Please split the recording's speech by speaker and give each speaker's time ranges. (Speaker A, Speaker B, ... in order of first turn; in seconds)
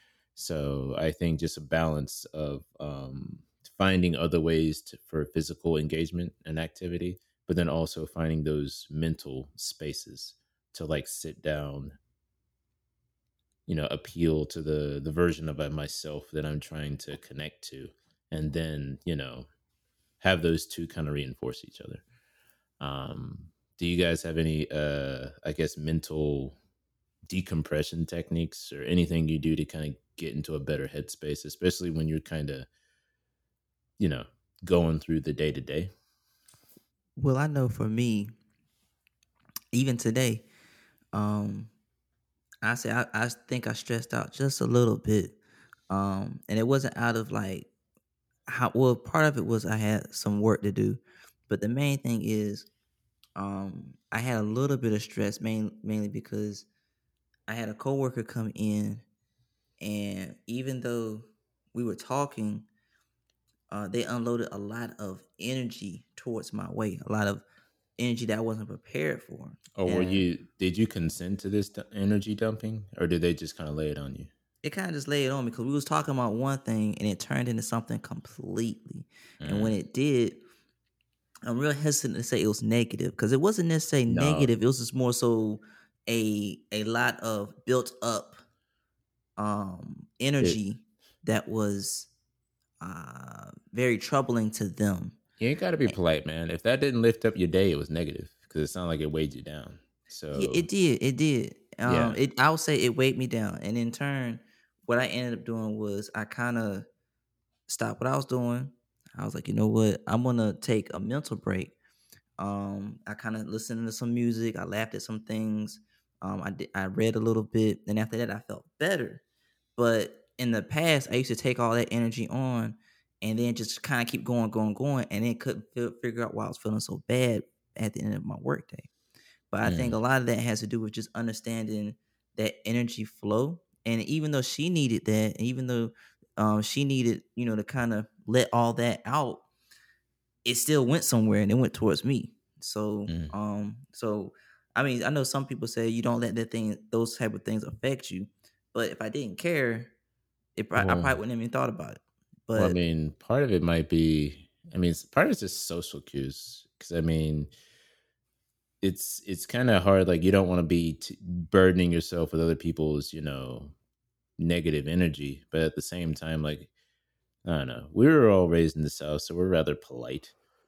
Speaker A: 0.4-11.9, 13.7-19.5, 20.2-22.0, 22.8-26.6, 27.3-32.7, 34.0-35.9, 69.7-74.3, 79.4-79.8, 84.1-84.5, 95.4-100.7, 101.8-102.2, 129.6-129.9, 143.1-143.3, 150.8-151.2, 152.6-157.5, 158.8-163.7, 164.4-166.7, 167.4-170.3
Speaker B: 37.2-38.3, 39.7-40.4, 41.1-41.7, 42.6-45.4, 45.9-47.7, 48.5-52.7, 53.4-56.7, 57.5-59.0, 59.8-62.7, 63.7-67.4, 68.0-70.3, 74.6-80.4, 81.4-88.4, 89.4-92.1, 92.8-95.2, 100.3-106.9, 107.7-111.7, 112.4-119.2, 119.8-128.9, 129.5-139.4, 140.4-149.9, 150.6-152.8